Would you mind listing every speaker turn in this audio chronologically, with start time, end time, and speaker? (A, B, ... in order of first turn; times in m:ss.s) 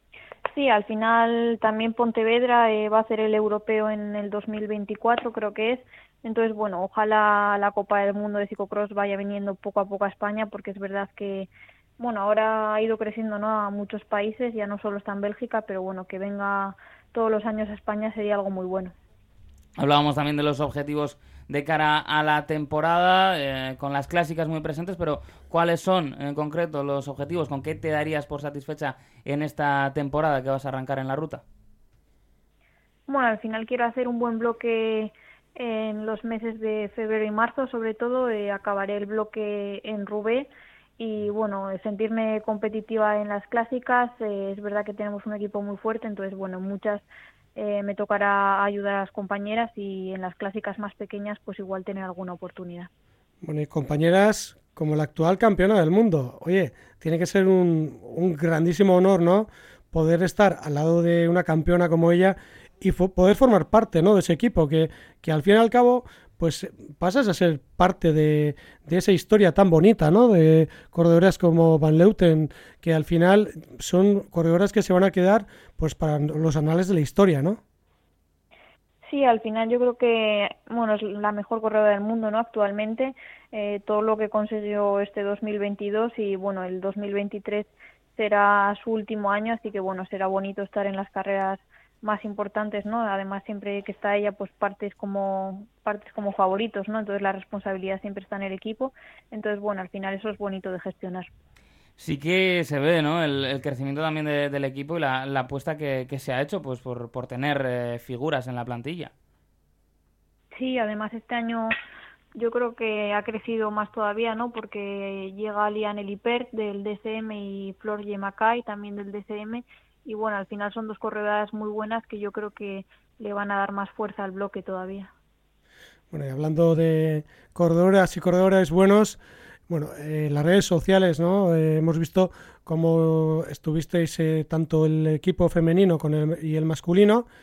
0:00.5-0:18.9 A
0:19.8-0:31.4 B
0:33.1-0:47.0 A
0:47.6-0:52.9 A
0:53.4-1:17.6 C
1:19.0-1:41.3 A
1:42.0-1:49.1 B
1:50.5-1:51.7 A
1:52.3-2:05.1 A
2:06.1-2:17.2 C